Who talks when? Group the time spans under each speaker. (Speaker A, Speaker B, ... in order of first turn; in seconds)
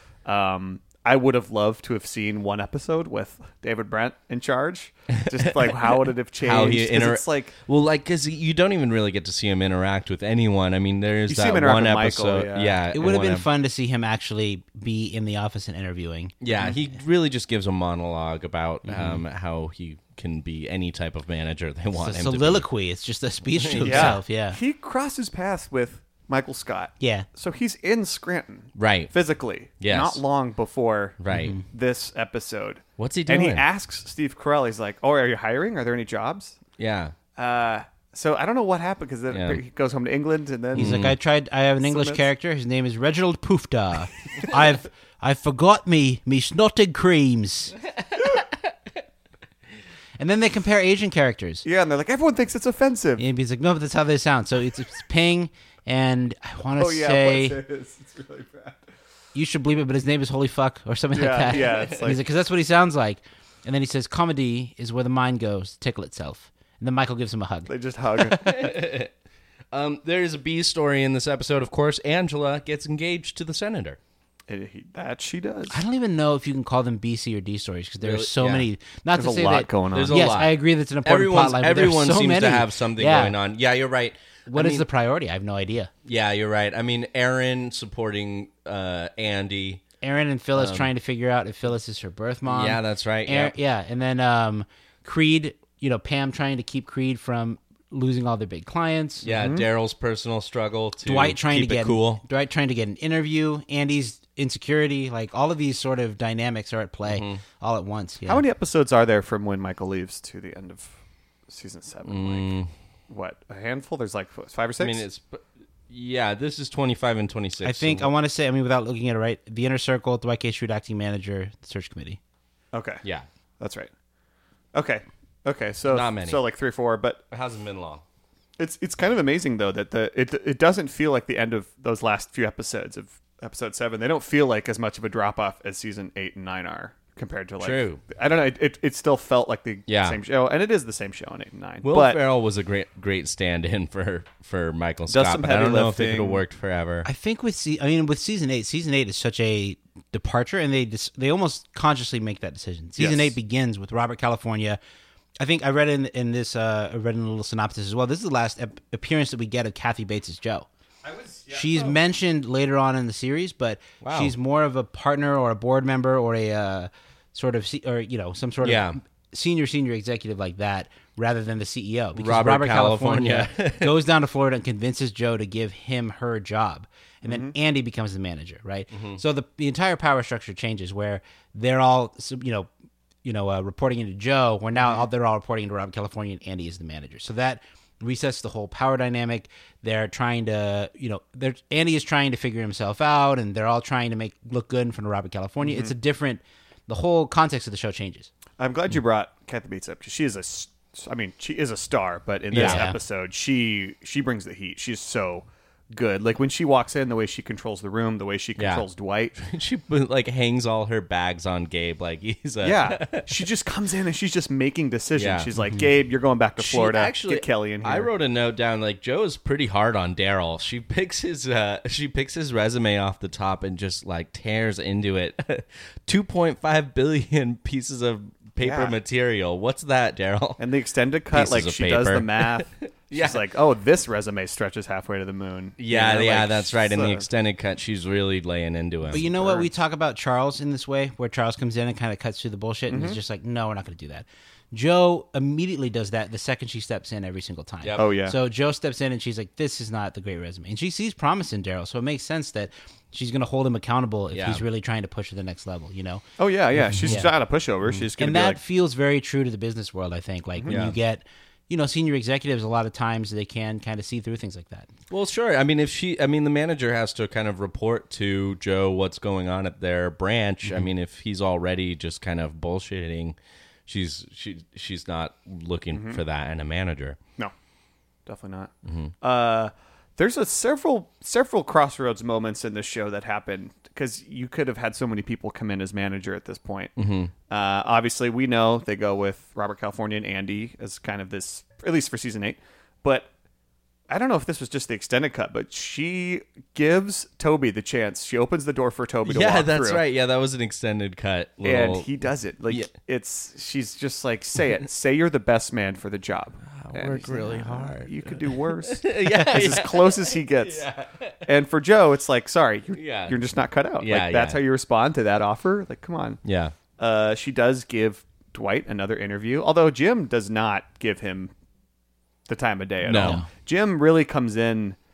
Speaker A: 0.2-7.5, 11.3-12.8, 23.8-36.6, 37.4-41.1, 41.8-42.2, 51.6-53.2, 56.8-58.9, 61.1-62.2, 67.7-68.6, 74.5-75.8, 79.1-80.3, 99.3-99.7, 108.2-110.9, 111.5-112.6, 113.1-115.0, 122.7-123.0, 123.6-123.9, 124.7-127.2, 128.6-142.2, 145.1-146.4, 153.0-153.3, 161.0-162.0, 177.2-177.5, 184.8-185.0, 195.6-195.9, 198.6-209.4, 212.6-218.1, 228.6-228.9, 230.6-237.2, 239.1-239.7, 242.9-243.2, 247.9-248.3, 256.4-258.6, 275.9-276.2, 278.3-286.9, 287.5-293.3, 294.1-300.0, 301.6-310.9, 311.4-316.4, 317.0-321.5, 322.5-325.0
Speaker B: 5.2-13.4, 16.4-22.6, 23.5-24.2, 28.8-29.1, 29.8-30.2, 31.2-31.5, 33.0-33.6, 36.8-37.1, 39.3-39.6, 40.7-41.1, 61.6-62.0, 68.3-69.1, 69.7-74.0, 78.0-78.7, 79.9-84.8, 86.0-89.8, 90.5-90.9, 92.5-93.5, 99.2-102.2, 107.1-107.4, 112.0-112.7, 114.8-118.1, 125.9-126.4, 127.3-128.0, 137.6-138.0, 139.9-140.2, 141.8-147.1, 164.0-164.3, 168.6-169.0, 172.2-174.0, 178.9-179.2, 202.5-202.9, 208.6-208.8, 209.4-213.4, 215.1-215.5, 216.6-230.6, 231.3-233.4, 235.8-239.2, 247.8-248.1, 254.3-254.6, 260.7-261.0, 265.1-277.2, 278.8-279.1, 287.0-287.3, 299.2-302.1, 306.7-311.5, 312.9-313.4, 314.0-314.6, 316.4-316.8, 323.0-323.4
Speaker C: 12.9-16.4, 18.8-19.2, 22.0-24.6, 27.0-27.3, 31.3-31.6, 40.7-47.7, 50.2-51.6, 53.2-57.6, 59.3-67.7, 75.7-83.4, 84.5-85.9, 90.0-99.3, 101.0-108.4, 117.6-122.2, 147.0-154.8, 155.4-160.7, 161.5-182.7, 183.2-198.3, 202.5-203.0, 239.1-256.2, 256.9-257.3, 258.1-264.9, 323.2-323.5